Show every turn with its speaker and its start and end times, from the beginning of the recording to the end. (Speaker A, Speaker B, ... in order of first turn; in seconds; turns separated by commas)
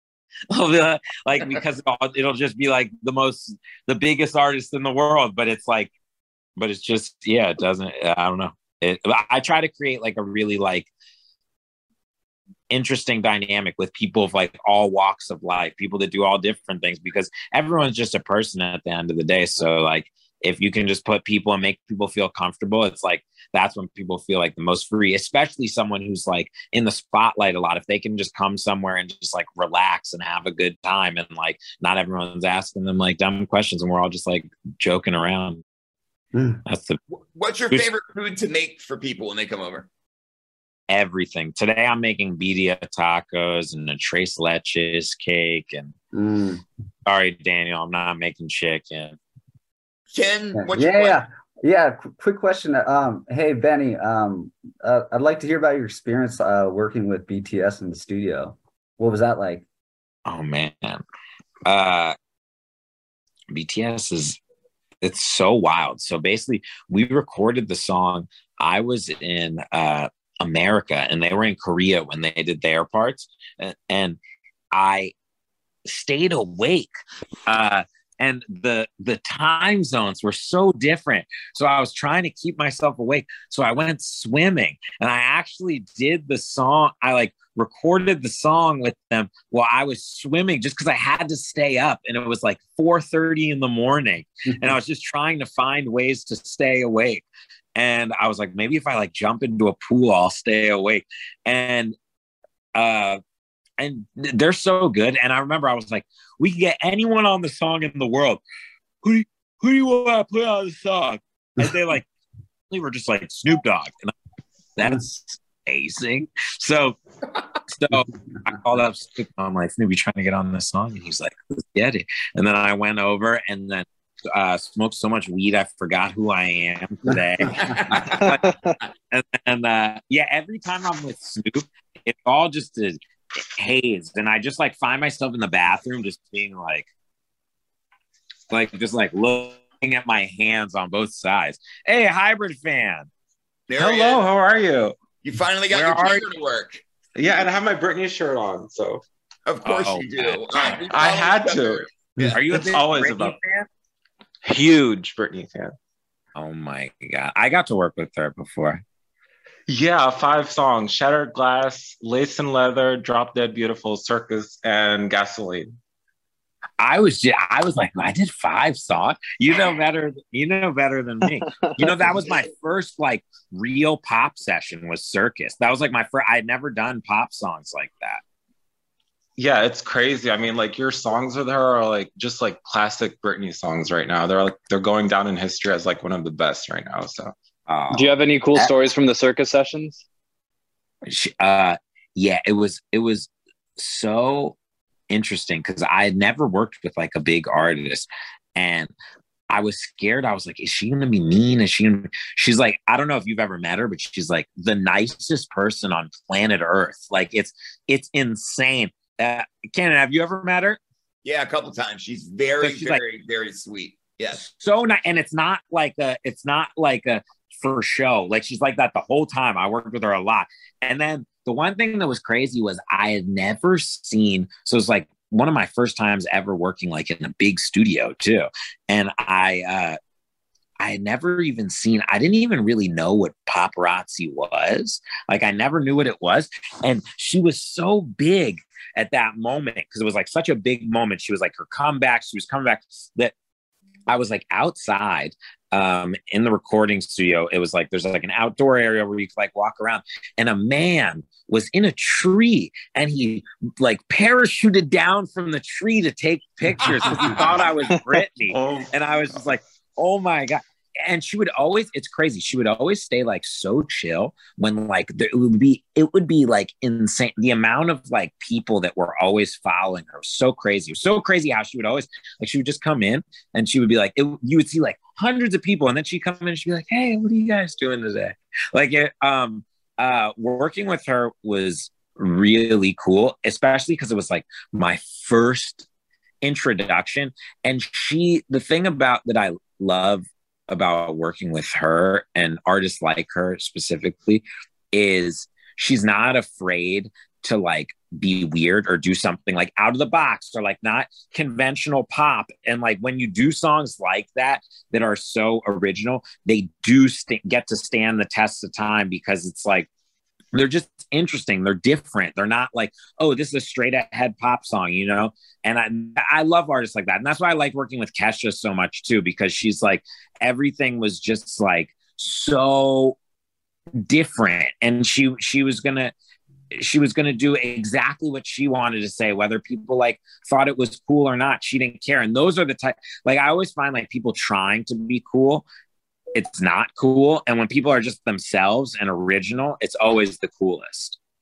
Speaker A: 0.5-5.9, Speaker A: 6.6-10.9, Speaker A: 12.7-35.6, Speaker B: 36.3-36.6, Speaker A: 36.7-37.0, Speaker C: 37.4-39.9, Speaker A: 40.9-46.0, Speaker B: 46.1-46.6, Speaker A: 47.1-49.2, Speaker C: 50.1-51.2, Speaker B: 50.6-59.7, Speaker A: 60.3-61.0, Speaker A: 61.7-62.2, Speaker A: 63.5-64.4, Speaker A: 65.0-74.2, Speaker A: 74.7-75.1, Speaker A: 75.9-76.9, Speaker A: 77.5-102.0, Speaker A: 102.8-103.2, Speaker A: 103.8-108.4, Speaker A: 109.0-112.1, Speaker A: 112.7-114.1, Speaker A: 114.8-117.0, Speaker A: 117.7-128.5, Speaker D: 128.1-128.8, Speaker A: 129.1-133.0, Speaker A: 133.6-136.9, Speaker A: 138.5-143.1, Speaker C: 143.7-144.2, Speaker E: 143.8-144.9, Speaker C: 145.2-146.8, Speaker A: 145.7-146.2, Speaker E: 147.2-149.0, Speaker C: 149.5-152.4, Speaker A: 149.6-150.4, Speaker E: 150.9-153.4, Speaker A: 152.3-153.7, Speaker E: 154.4-155.7, Speaker A: 156.4-158.8, Speaker E: 159.7-165.7, Speaker A: 166.8-178.2, Speaker E: 179.4-187.3, Speaker A: 187.7-188.7, Speaker D: 187.9-190.1, Speaker A: 191.1-194.6, Speaker A: 195.1-198.9, Speaker A: 199.5-210.8, Speaker C: 211.2-214.4, Speaker A: 212.6-213.0, Speaker A: 214.4-230.0, Speaker A: 230.8-243.3, Speaker A: 244.1-285.9, Speaker E: 258.5-258.9, Speaker A: 286.4-309.9, Speaker A: 310.5-323.2, Speaker A: 324.1-326.1, Speaker A: 326.7-335.7, Speaker A: 336.4-341.2